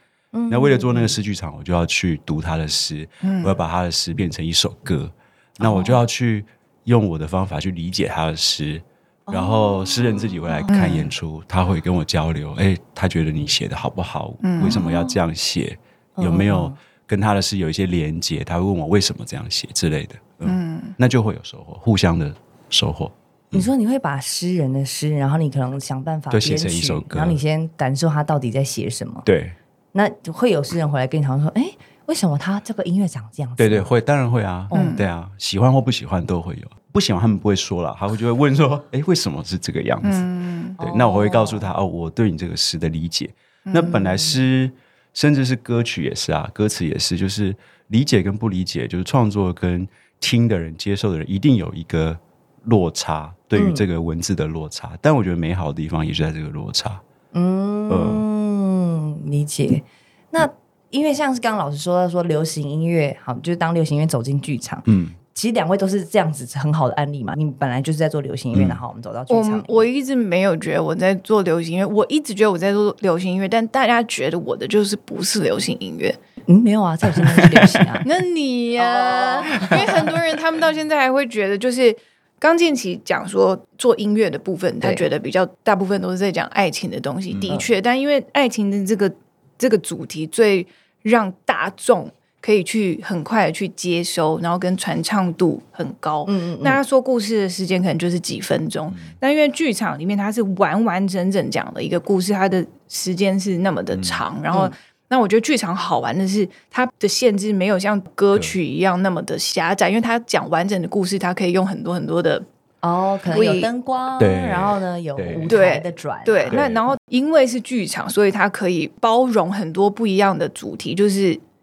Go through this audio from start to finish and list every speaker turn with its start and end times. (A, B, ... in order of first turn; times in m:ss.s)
0:00.3-0:01.2 A
0:00.5-0:23.7 B
0:03.2-0:03.6 C
0:05.6-0:06.0 A
0:09.3-0:10.7 A
0:10.7-0:11.1 C
0:14.4-0:14.8 C
0:14.6-0:15.2 A
0:16.2-0:16.8 A
0:20.4-0:21.0 C
0:23.5-0:29.3 A
0:26.3-0:27.4 B
0:29.2-0:29.6 B
0:29.9-0:33.9 A
0:33.6-0:40.3 B
0:34.7-0:35.0 A
0:34.7-0:35.0 C
0:40.0-0:40.8 C
0:40.8-0:41.8 A
0:40.8-0:57.0 B
0:43.7-0:44.1 C
0:53.6-0:53.8 A
0:57.3-1:09.9 A
0:57.9-0:58.2 B
1:04.9-1:05.2 B
1:08.5-1:08.8 B
1:09.3-1:16.2 C
1:16.5-1:18.1 A
1:17.1-1:18.0 B
1:18.0-1:52.5 C
1:18.8-1:19.8 A
1:19.6-1:20.2 B
1:27.3-1:27.7 B
1:36.2-1:36.8 A
1:38.9-1:39.2 B
1:43.9-1:44.2 B
1:52.8-1:56.6 A
1:53.3-1:53.7 C
1:54.2-1:55.6 B
1:55.5-2:01.4 C
1:56.5-1:57.0 B